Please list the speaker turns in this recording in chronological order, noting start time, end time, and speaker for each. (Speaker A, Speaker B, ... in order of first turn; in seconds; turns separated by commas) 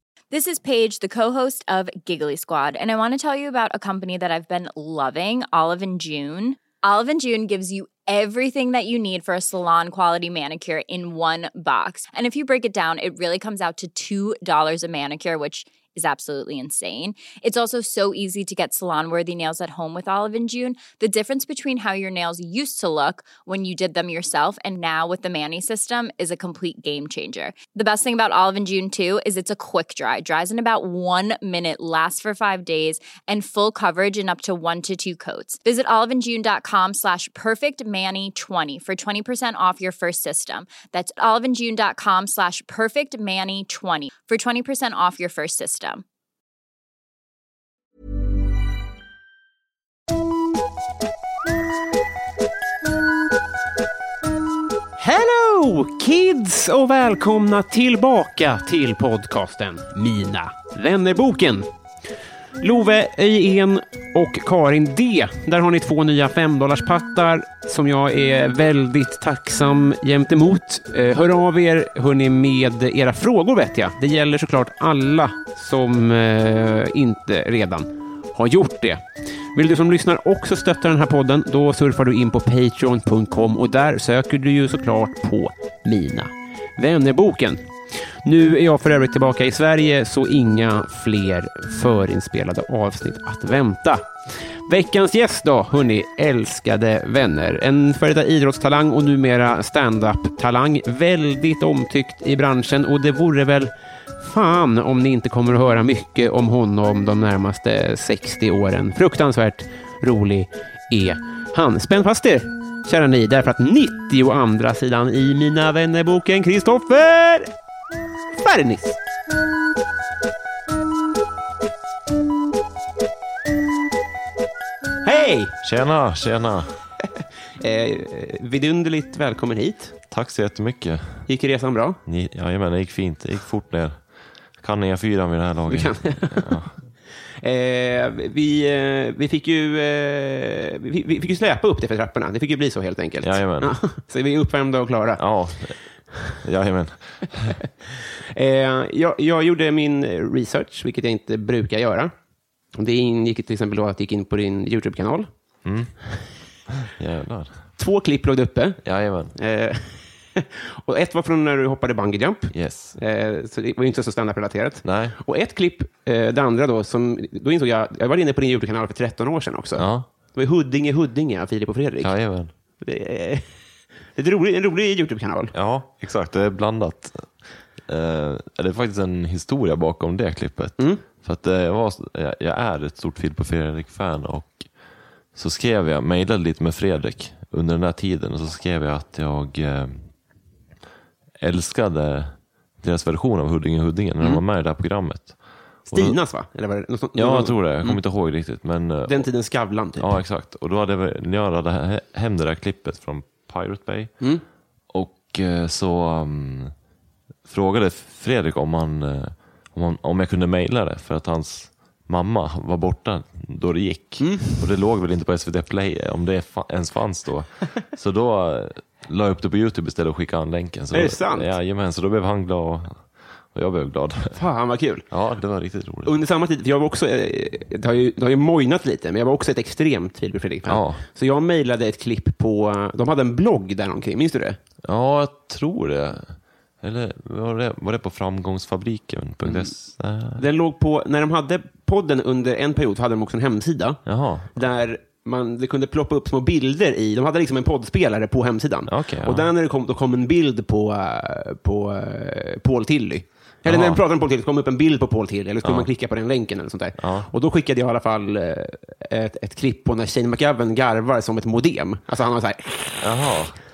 Speaker A: 0.3-46.0, Speaker B: 55.0-61.6, Speaker B: 62.6-87.6, Speaker B: 88.2-94.1, Speaker B: 94.7-117.5, Speaker B: 118.4-119.0, Speaker B: 125.0-125.5, Speaker C: 125.6-126.7, Speaker B: 127.6-129.9, Speaker C: 130.1-131.3, Speaker B: 131.3-132.0, Speaker C: 132.0-134.0, Speaker C: 134.6-136.7, Speaker B: 135.7-136.6, Speaker B: 137.4-145.2, Speaker C: 143.2-143.7, Speaker C: 145.2-145.8, Speaker C: 146.4-147.6, Speaker B: 148.3-152.1, Speaker B: 152.7-155.3, Speaker C: 155.6-156.0, Speaker C: 156.8-157.7, Speaker B: 157.8-158.8, Speaker C: 158.8-159.3, Speaker B: 159.3-172.1, Speaker C: 162.5-163.0, Speaker C: 164.8-165.2, Speaker C: 169.7-170.1, Speaker C: 172.0-172.5, Speaker B: 172.8-173.4, Speaker B: 174.1-175.5, Speaker C: 175.5-177.3, Speaker C: 177.8-184.7, Speaker B: 180.8-181.0, Speaker C: 185.3-190.1, Speaker C: 191.4-195.4, Speaker C: 195.9-196.2, Speaker B: 195.9-198.0, Speaker C: 197.2-199.2, Speaker B: 199.1-200.1, Speaker C: 200.0-204.1, Speaker C: 204.9-206.7, Speaker C: 207.4-224.4, Speaker B: 214.2-214.7, Speaker B: 220.9-221.5, Speaker B: 224.3-225.1, Speaker C: 225.1-226.1, Speaker B: 226.0-234.6, Speaker C: 230.7-231.0, Speaker C: 234.8-240.4, Speaker B: 239.4-239.7, Speaker B: 240.4-244.0, Speaker C: 244.1-244.5, Speaker B: 244.5-263.3, Speaker C: 248.9-249.5, Speaker C: 253.6-254.0, Speaker C: 255.6-255.9, Speaker C: 257.0-257.3, Speaker C: 263.0-263.6